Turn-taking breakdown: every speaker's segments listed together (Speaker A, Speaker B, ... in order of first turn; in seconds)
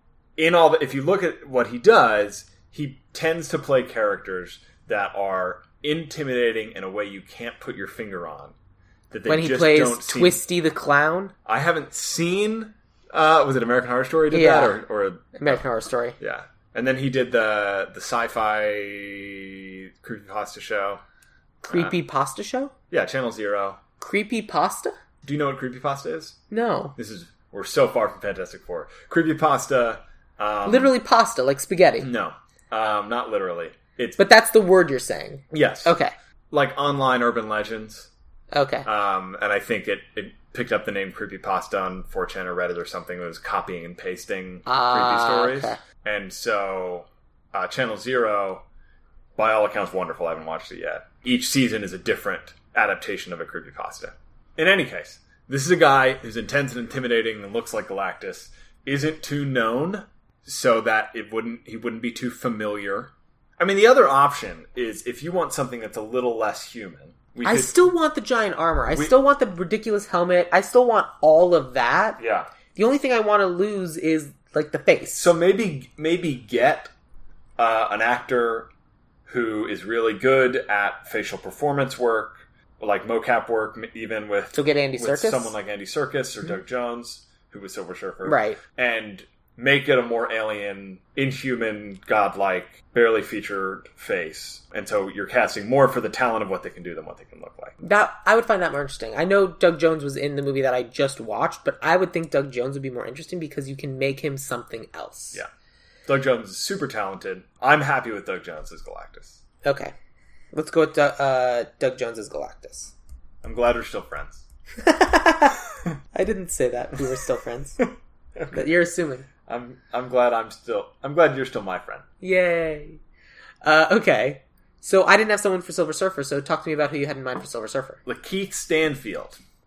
Speaker A: 0.4-8.5, 9.1-10.4, 11.5-15.6, 16.2-21.0, 21.7-21.9, 22.9-23.8, 25.2-26.4, 27.0-30.9, 32.0-34.2, 35.5-36.0, 36.5-38.1, 38.9-48.6, 49.4-67.8, 72.2-72.5, 75.2-76.9, 77.6-78.7, 79.3-97.8, 106.1-109.4, 113.4-114.5, 117.8-118.6, 119.5-122.0, 128.1-129.4
Speaker B: 9.3-11.3, 14.3-14.8, 15.3-16.2, 21.6-22.7, 24.0-24.9, 26.5-26.9, 30.7-32.1, 34.2-36.1, 38.5-38.9, 44.7-45.8, 67.4-72.2, 72.8-75.3, 84.5-85.5, 88.2-88.6, 97.8-105.4, 109.6-109.9, 110.5-112.9, 114.8-115.6, 116.1-117.8, 118.5-119.3, 122.2-123.0, 123.6-128.0